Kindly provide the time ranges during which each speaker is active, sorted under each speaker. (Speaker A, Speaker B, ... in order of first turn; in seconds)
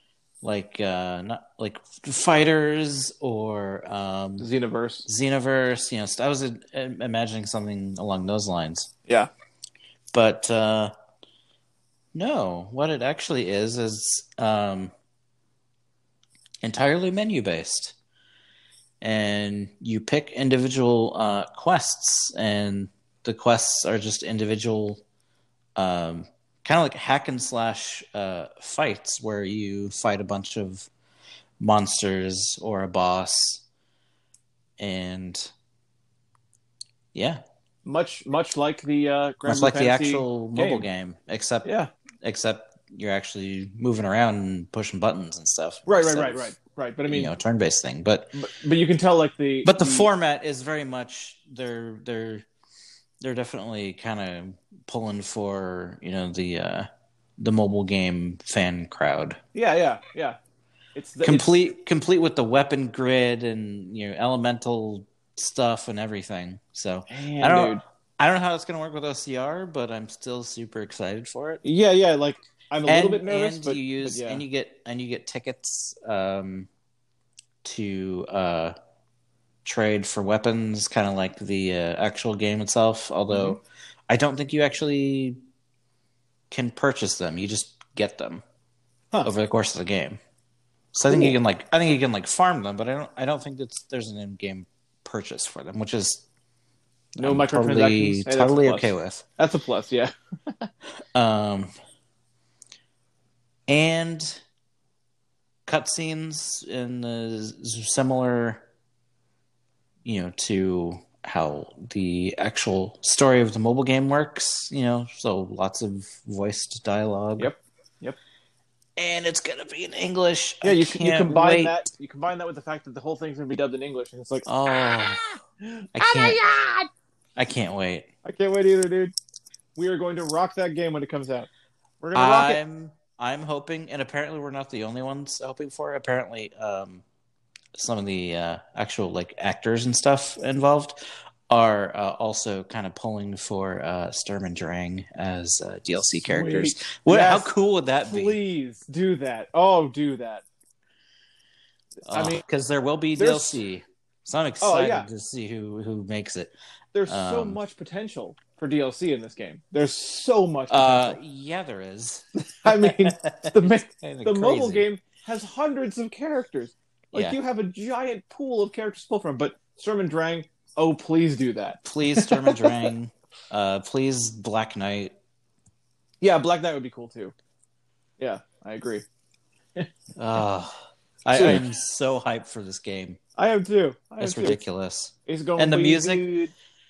Speaker A: 0.4-4.5, 5.0-8.9, 10.1-10.9, 12.1-14.9, 16.6-17.9, 19.0-25.0, 25.8-30.9, 31.6-33.6, 34.8-35.5, 37.1-37.4, 39.5-41.7, 42.2-46.5, 47.1-48.4, 49.6-52.5, 53.2-59.4, 61.2-71.6, 72.8-76.7, 77.6-78.7, 79.6-85.4, 86.5-88.4, 89.2-90.2, 90.9-96.2, 97.2-99.2, 101.1-101.7, 103.7-104.4, 105.7-108.6, 110.0-117.5, 119.0-121.7, 124.5-125.2, 125.9-126.4, 127.4-128.1, 132.1-137.0, 137.7-148.4, 152.1-156.5, 157.1-157.6, 160.7-164.8, 171.8-175.1, 180.2-183.2, 184.2-186.2
Speaker B: 4.4-5.1, 37.8-40.9, 41.6-41.9, 45.9-47.3, 48.3-50.1, 59.5-60.4, 60.9-61.5, 67.1-67.8, 71.6-74.4, 83.3-83.6, 91.1-91.4, 97.2-100.7, 117.4-118.2, 120.6-126.9, 128.2-129.1, 129.8-131.5, 132.0-132.6, 146.2-147.5, 148.1-150.4, 152.1-152.4, 153.2-153.6, 154.6-155.1, 156.9-161.2, 162.4-172.8, 176.2-177.3, 178.2-179.0, 181.3-181.6, 183.4-184.6, 185.2-186.5